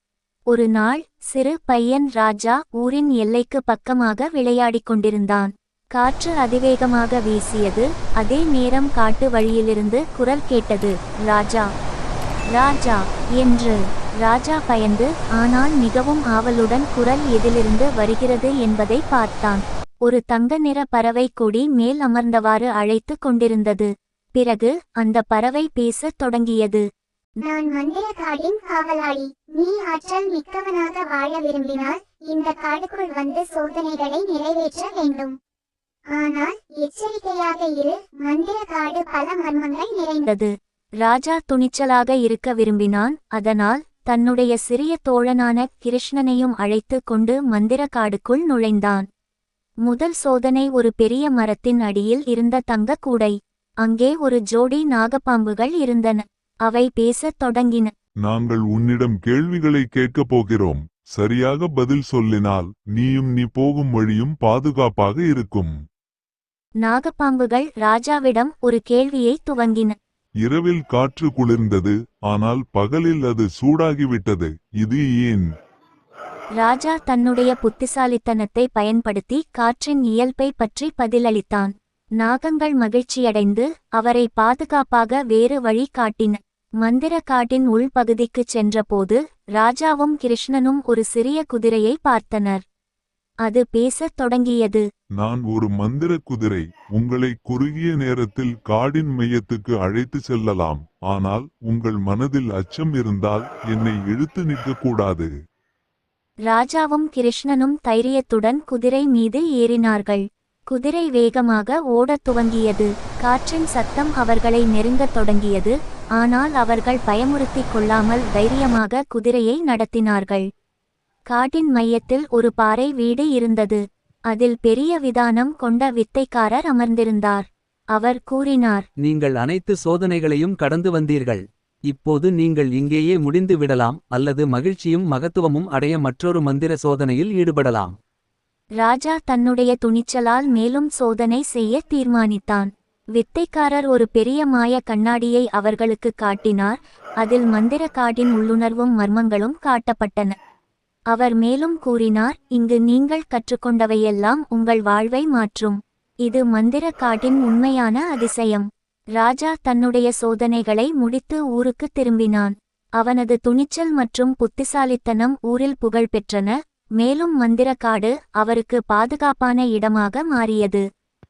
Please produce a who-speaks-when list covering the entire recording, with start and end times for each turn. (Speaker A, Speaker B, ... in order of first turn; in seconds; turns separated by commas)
Speaker A: 0.5-11.7, Speaker A: 12.5-26.8, Speaker B: 27.4-35.4, Speaker B: 36.1-40.3, Speaker A: 40.3-49.1, Speaker A: 49.9-57.9, Speaker C: 58.2-65.7, Speaker A: 66.8-70.0, Speaker C: 70.4-75.5, Speaker A: 76.6-92.6, Speaker A: 93.5-94.8, Speaker C: 95.2-105.3, Speaker A: 106.5-120.5, Speaker A: 121.3-128.8, Speaker D: 129.0-137.9, Speaker A: 138.8-150.3, Speaker A: 151.1-170.8